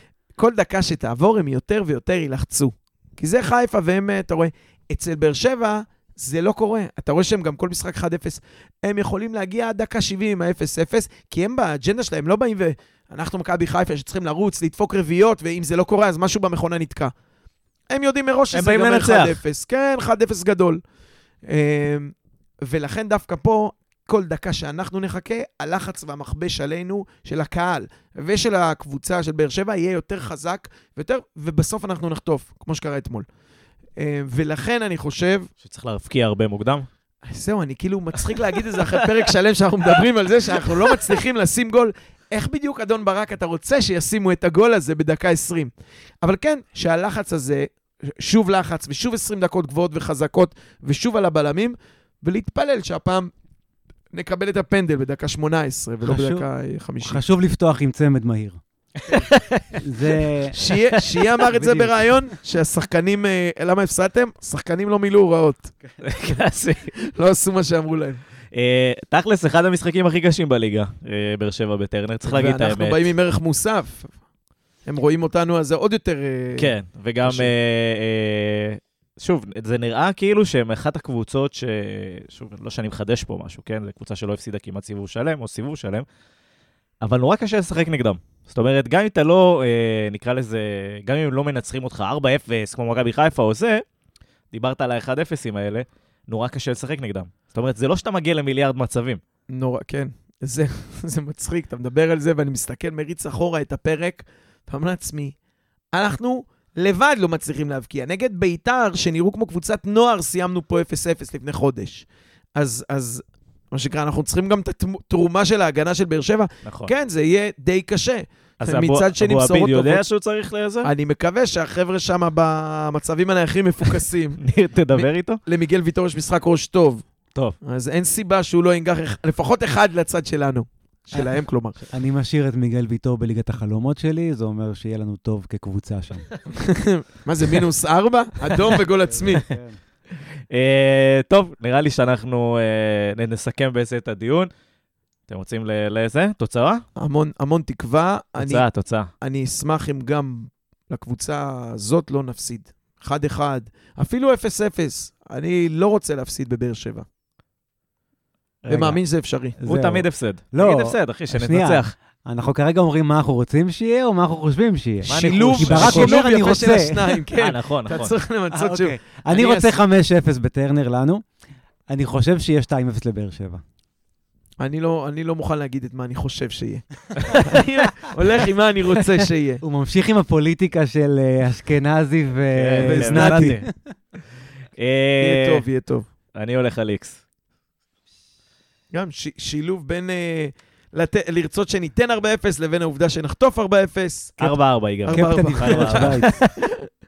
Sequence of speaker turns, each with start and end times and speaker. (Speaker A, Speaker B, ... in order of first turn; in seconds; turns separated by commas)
Speaker A: 0.3-17.1, Speaker A: 17.9-20.8, Speaker B: 18.5-19.4, Speaker A: 21.4-33.2, Speaker A: 34.0-35.5, Speaker B: 35.6-36.9, Speaker A: 37.2-45.7, Speaker B: 38.8-39.0, Speaker B: 40.6-41.0, Speaker A: 46.2-53.3, Speaker A: 54.1-57.2, Speaker C: 56.0-56.4, Speaker C: 57.0-58.6, Speaker B: 59.0-60.1, Speaker C: 59.8-60.5, Speaker A: 60.5-65.8, Speaker B: 60.6-61.8, Speaker C: 61.5-62.1, Speaker B: 66.0-66.9, Speaker A: 66.9-68.2, Speaker B: 68.5-73.0, Speaker A: 72.2-74.1, Speaker A: 74.8-77.5, Speaker B: 76.5-86.0, Speaker B: 87.0-93.8, Speaker B: 94.5-99.2, Speaker A: 99.5-105.3, Speaker A: 105.9-120.0, Speaker B: 116.6-116.9, Speaker B: 118.6-120.9, Speaker A: 120.8-124.4, Speaker B: 124.4-125.4, Speaker A: 124.9-127.0, Speaker A: 127.6-131.9, Speaker C: 131.9-136.3, Speaker A: 136.5-139.5, Speaker C: 139.0-139.8, Speaker B: 140.5-144.5, Speaker B: 145.3-146.8, Speaker A: 146.9-148.7, Speaker B: 148.4-149.1, Speaker A: 149.2-157.0, Speaker B: 158.7-159.0, Speaker A: 158.7-159.6, Speaker C: 159.6-167.2, Speaker B: 159.7-161.9, Speaker B: 165.0-166.2, Speaker A: 165.1-169.8, Speaker B: 167.3-168.1, Speaker C: 168.5-171.2, Speaker C: 171.9-173.6, Speaker A: 174.6-179.6, Speaker C: 179.6-183.7, Speaker B: 182.5-183.7, Speaker A: 182.8-183.6, Speaker B: 184.8-185.6, Speaker A: 185.2-186.1, Speaker B: 186.3-187.2, Speaker A: 188.9-196.7, Speaker B: 194.4-196.5, Speaker C: 195.1-196.3